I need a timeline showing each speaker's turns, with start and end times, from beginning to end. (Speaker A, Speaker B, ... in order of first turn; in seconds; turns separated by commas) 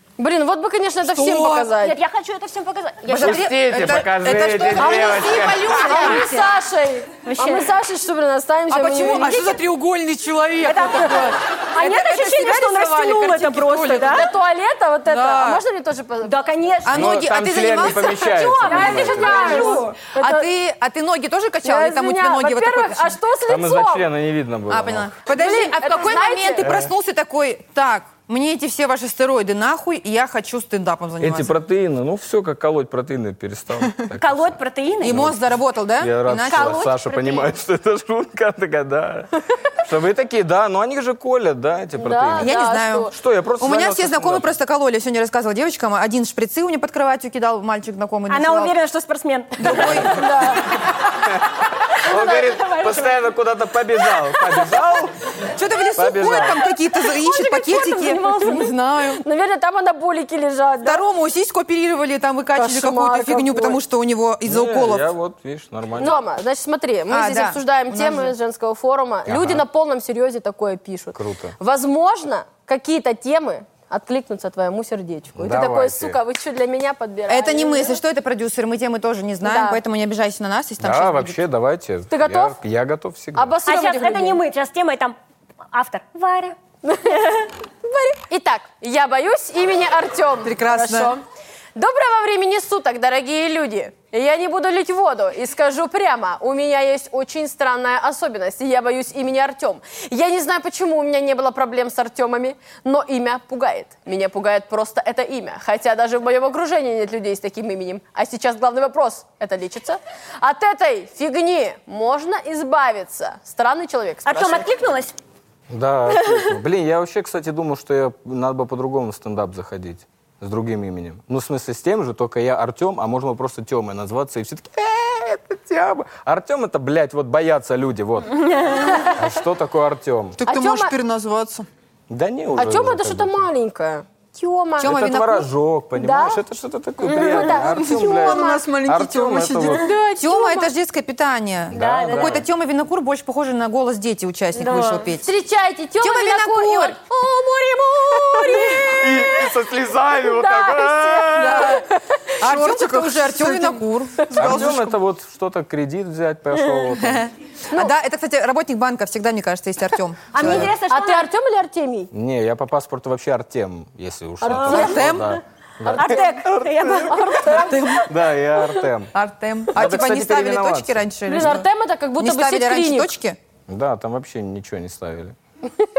Speaker A: 0.2-2.0, Speaker B: 1.0-1.7, Speaker C: 1.6-3.5, Speaker B: 3.1-6.5, Speaker D: 3.1-5.9, Speaker A: 5.7-9.6, Speaker C: 7.2-7.7, Speaker B: 8.7-14.2, Speaker C: 10.6-14.3, Speaker A: 14.1-16.4, Speaker B: 15.1-15.6, Speaker C: 16.2-17.2, Speaker B: 16.8-23.2, Speaker D: 16.9-19.8, Speaker A: 18.0-20.5, Speaker C: 18.3-19.9, Speaker A: 21.6-24.1, Speaker D: 23.4-25.1, Speaker B: 24.7-31.5, Speaker A: 25.3-26.8, Speaker D: 31.2-35.4, Speaker C: 34.2-35.2, Speaker B: 35.0-36.9, Speaker D: 36.0-42.5, Speaker C: 36.5-37.5, Speaker A: 42.0-43.1, Speaker B: 42.4-48.7, Speaker D: 43.1-44.5, Speaker C: 48.3-50.2, Speaker B: 49.6-50.2, Speaker D: 49.7-50.0, Speaker A: 50.0-50.8, Speaker D: 51.2-55.1, Speaker C: 52.0-53.1, Speaker B: 55.5-59.2, Speaker D: 56.0-56.7, Speaker C: 57.2-58.2, Speaker A: 57.5-58.6, Speaker A: 59.2-61.0, Speaker B: 60.8-65.1, Speaker A: 62.5-63.8, Speaker D: 64.5-66.2, Speaker A: 66.0-78.0, Speaker B: 67.1-68.3, Speaker D: 69.2-69.6, Speaker D: 71.1-71.5, Speaker D: 75.3-76.2, Speaker B: 77.3-81.4, Speaker A: 79.4-79.8, Speaker D: 80.8-83.5, Speaker A: 82.1-82.5, Speaker A: 83.3-84.4, Speaker C: 83.7-85.2, Speaker C: 85.7-86.6, Speaker A: 86.8-91.2, Speaker B: 90.4-91.1, Speaker A: 91.8-114.7, Speaker C: 114.2-115.2, Speaker D: 115.7-130.4, Speaker C: 116.2-116.5, Speaker A: 128.8-129.1, Speaker E: 130.4-131.7, Speaker A: 130.4-130.9, Speaker D: 132.1-133.4, Speaker A: 132.5-134.9, Speaker B: 134.8-135.5, Speaker D: 134.8-139.9, Speaker A: 135.9-136.4, Speaker A: 137.0-138.6, Speaker E: 137.4-139.9, Speaker A: 139.7-140.7, Speaker B: 140.2-145.3, Speaker D: 141.7-142.4, Speaker C: 141.7-142.4, Speaker C: 144.5-145.1, Speaker A: 145.2-149.5, Speaker B: 146.0-147.0, Speaker D: 148.5-151.8, Speaker A: 150.1-152.3, Speaker B: 151.3-151.8, Speaker B: 152.4-154.7, Speaker E: 152.4-155.0, Speaker D: 154.3-157.3, Speaker B: 157.0-160.7, Speaker C: 160.3-161.3, Speaker D: 160.4-160.7, Speaker A: 160.9-162.1, Speaker D: 162.1-169.1, Speaker A: 164.4-165.3, Speaker B: 164.6-165.4, Speaker A: 165.8-166.4, Speaker C: 165.9-168.1, Speaker A: 167.1-167.7, Speaker B: 167.6-168.1, Speaker B: 169.1-171.7, Speaker D: 169.7-171.0, Speaker A: 171.3-173.1, Speaker B: 172.2-173.4, Speaker D: 173.7-175.3